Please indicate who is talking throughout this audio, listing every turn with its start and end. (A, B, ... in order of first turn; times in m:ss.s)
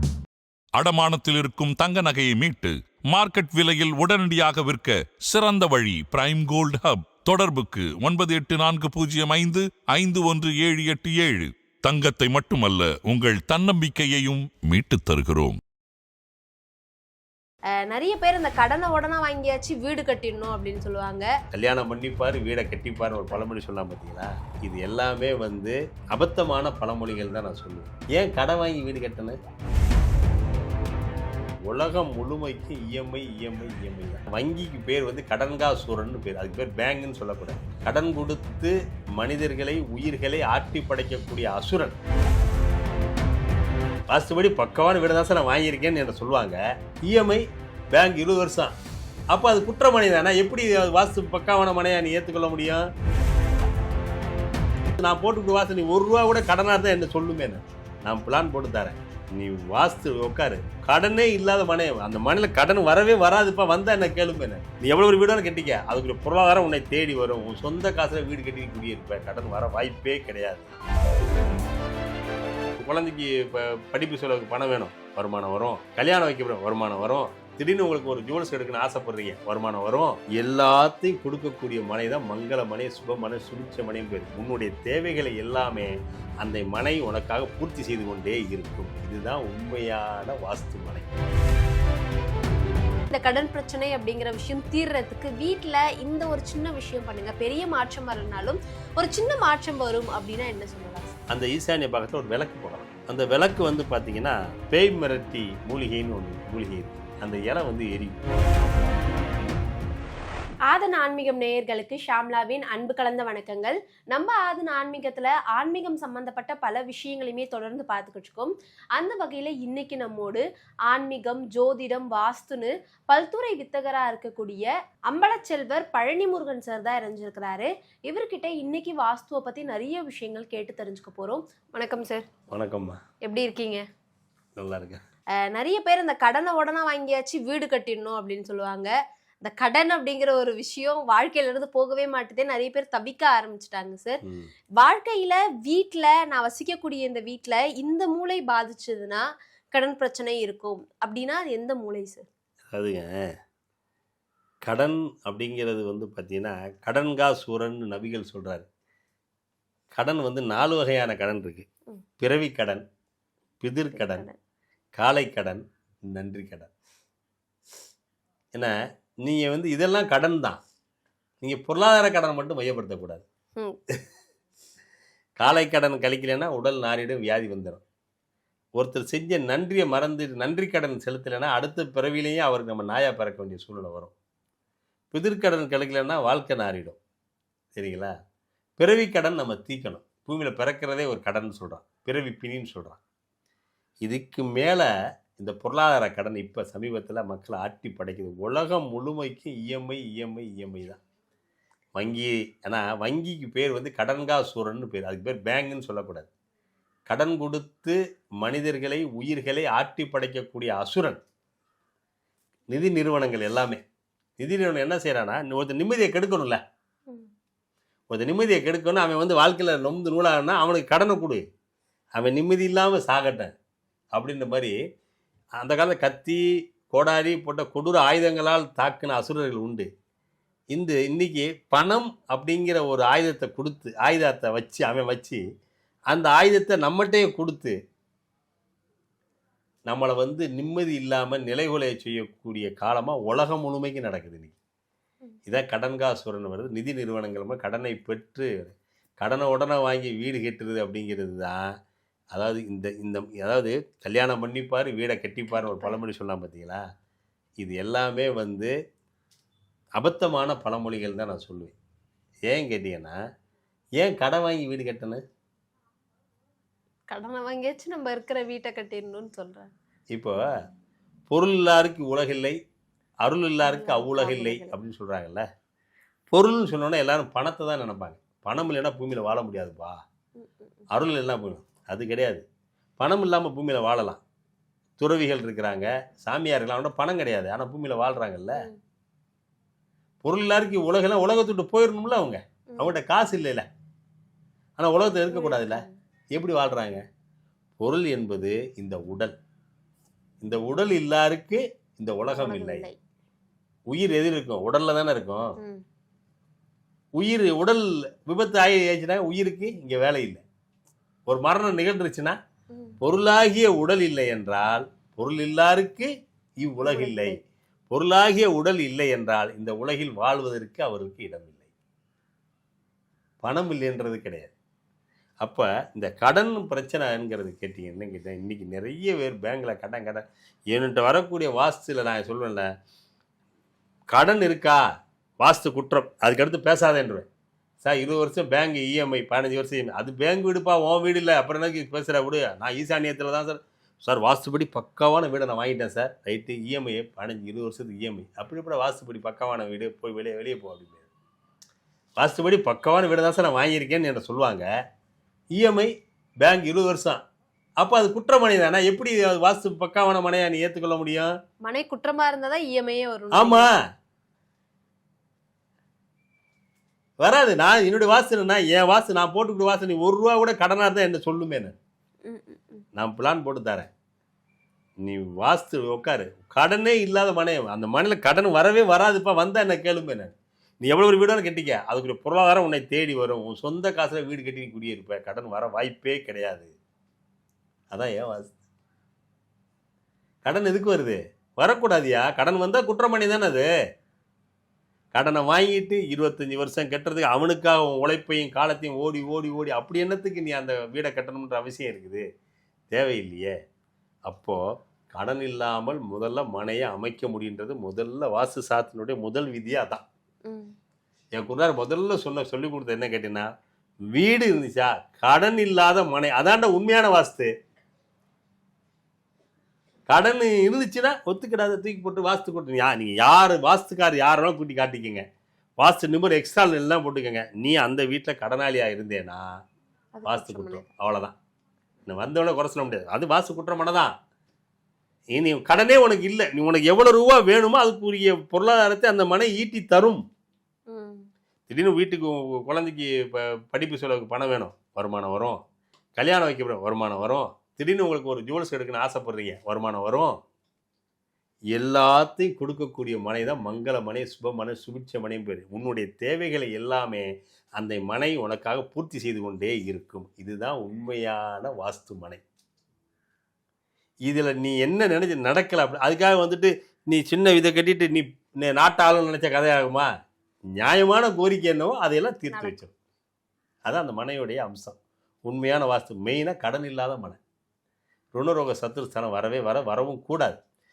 0:00.8-0:15.6 A
0:17.9-0:21.3 B
0:21.5-0:29.4 C
0:31.7-0:42.0 C
0:44.1-0:48.7 C
0:49.3-0:52.9 C
0:55.0-1:10.7 C
1:12.8-1:31.1 C
1:33.1-1:41.1 B
1:41.3-1:48.2 C
1:50.7-2:12.3 B
2:12.5-2:13.0 C
2:13.2-2:13.8 B
2:14.6-2:15.0 C
2:15.5-2:18.9 B
2:19.4-2:24.2 B
2:24.8-2:32.3 B
2:32.7-2:33.3 C
2:34.6-2:38.7 C
2:40.0-2:41.7 C
2:42.2-2:42.8 C
2:43.6-2:44.3 C
2:43.9-2:44.4 B
2:45.0-2:46.7 C
2:49.2-2:50.6 C
2:51.4-2:53.2 C
2:55.4-2:57.8 C
2:58.8-3:04.1 C
3:05.1-3:07.0 C
3:07.8-3:08.1 C
3:08.8-3:13.0 C
3:14.0-3:21.0 C
3:22.0-3:26.3 C
3:27.1-3:31.2 C
3:32.7-3:33.8 C
3:34.4-3:36.6 C
3:38.1-3:41.4 C
3:42.2-3:43.5 C
3:44.1-3:44.8 C
3:45.6-3:49.9 C
3:50.7-3:55.4 C
3:56.1-3:57.7 C
3:59.9-4:04.6 C
4:05.5-4:11.6 C
4:12.3-4:16.8 C
4:15.5-4:16.0 B
4:17.6-4:18.7 C
4:20.0-4:21.8 C
4:22.5-4:23.2 C
4:24.0-4:25.2 C
4:27.1-4:29.7 B
4:30.1-4:30.5 C
4:31.3-4:32.6 C
4:33.2-4:35.4 C
4:33.6-4:34.8 B
4:36.3-4:40.0 C
4:40.4-4:40.8 B
4:40.9-4:42.4 C
4:43.0-4:44.2 C
4:45.0-4:48.7 C
4:50.2-4:53.6 C
4:54.8-4:57.0 C
4:55.3-4:56.0 B
4:57.8-4:59.4 C
5:00.4-5:02.9 C
5:02.3-5:03.0 B
5:03.9-5:05.5 C
5:05.6-5:05.8 B
5:07.2-5:10.4 C
5:11.3-5:12.4 C
5:12.7-5:13.0 B
5:13.0-5:16.1 C
5:16.6-5:17.4 C
5:16.8-5:17.4 B
5:17.9-5:21.7 C
5:23.4-5:24.5 C
5:25.4-5:32.6 C
5:34.1-5:34.8 C
5:35.4-5:37.3 C
5:37.8-5:51.1 C
5:52.2-5:54.6 C
5:55.6-5:55.9 C
5:56.4-5:57.2 C
5:57.8-6:01.3 C
6:01.6-6:03.7 B
6:03.3-6:03.8 C
6:07.2-6:11.8 C
6:12.3-6:12.8 B
6:13.0-6:13.9 C
6:15.0-6:26.7 C
6:27.9-6:28.5 C
6:30.4-6:33.7 C
6:35.1-6:42.2 C
6:42.9-6:43.5 C
6:44.3-6:44.6 C
6:45.1-6:50.0 C
6:50.5-6:50.7 B
6:51.4-6:53.5 C
6:54.1-6:57.5 C
7:00.1-7:05.2 C
7:05.8-7:09.5 C
7:10.1-7:10.8 B
7:10.2-7:11.3 C
7:12.1-7:14.1 C
7:15.3-7:20.2 C
7:20.9-7:21.2 B
7:21.7-7:25.6 C
7:26.2-7:30.4 C
7:31.7-7:42.4 C
7:44.3-7:50.1 C
7:50.8-7:52.9 C
7:52.5-7:52.8 B
7:53.9-7:57.4 C
7:58.4-8:00.6 C